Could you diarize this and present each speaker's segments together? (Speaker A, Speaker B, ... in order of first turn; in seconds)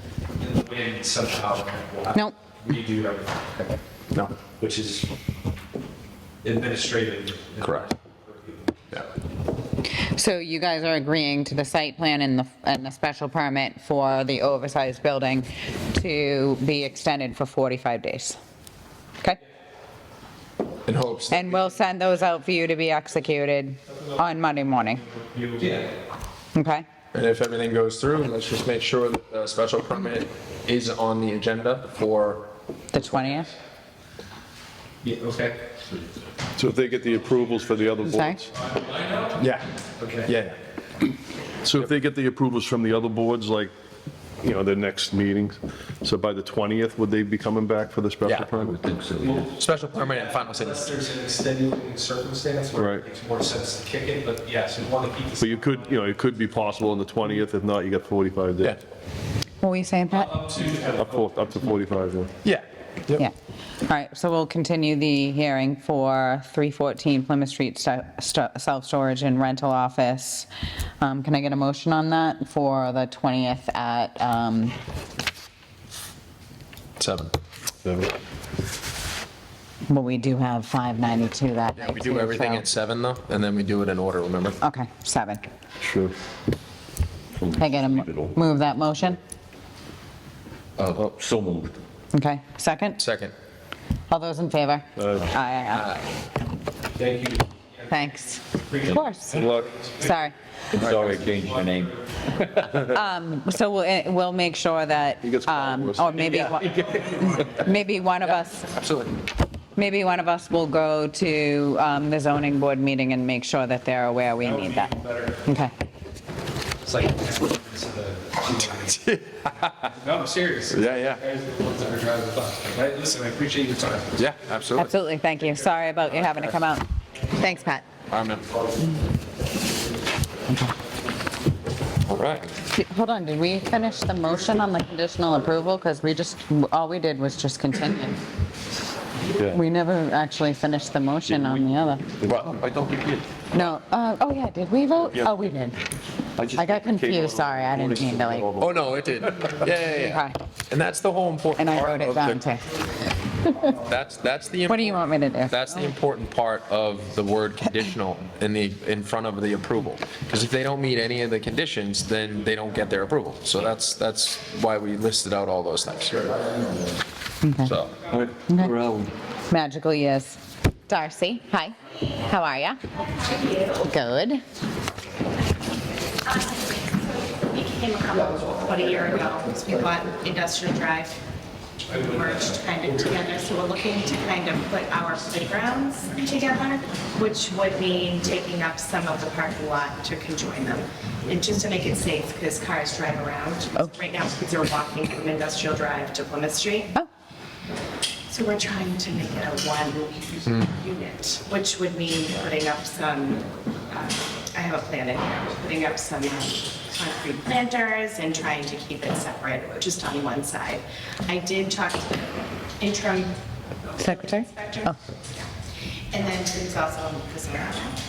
Speaker A: 0.4-3.8, 4.5-5.1, 6.4-8.7, 25.4-25.9, 35.0-35.6, 38.7-39.4, 40.0-40.3, 49.2-56.0, 60.1-61.8, 97.0-100.3, 101.0-102.1, 106.1-107.7, 114.4-115.5, 116.8-119.0, 119.8-124.2
Speaker B: 7.6-7.9, 20.9-21.6, 27.1-32.5, 39.4-39.6, 40.2-40.6, 48.2-48.6, 49.6-50.9, 62.4-63.2, 77.0-77.3, 81.8-84.6, 90.8-91.0, 93.0-93.3, 95.7-96.0, 100.8-101.0, 108.2-109.1, 120.7-121.2, 124.2-124.9, 128.1-128.5, 132.1-132.5, 148.6-152.5, 153.7-166.4, 167.7-168.0
Speaker C: 10.2-18.4, 21.3-25.0, 26.6-26.9, 32.9-33.5, 38.0-38.4, 59.6-60.4, 63.9-70.5, 71.0-74.8, 79.9-82.7, 84.6-85.4, 87.5-89.2, 92.1-93.0, 94.1-96.0, 97.9-100.3, 102.7-108.7, 109.8-114.9, 115.5-115.7, 124.8-126.9, 132.6-138.2, 139.4-142.0, 143.5-145.8, 146.5-148.5, 149.9-150.4, 151.6-152.7, 153.4-153.7, 154.7-156.0, 167.4-167.7, 168.5-168.8, 169.5-172.8, 173.8-174.4, 214.0-215.0
Speaker D: 36.6-38.5, 41.6-43.7, 44.4-48.8, 52.8-53.0, 55.4-58.8, 61.0-62.3, 85.8-86.1, 95.0-95.3, 99.3-99.7, 105.2-106.2
Speaker E: 48.6-49.5, 87.4-88.4, 90.8-91.8, 100.7-102.7, 141.3-141.7, 142.2-143.3, 145.1-145.4, 146.4-148.8, 168.1-169.1
Speaker F: 127.4-127.8, 173.1-173.8, 176.2-181.2, 181.9-197.0, 198.3-215.5, 216.1-218.0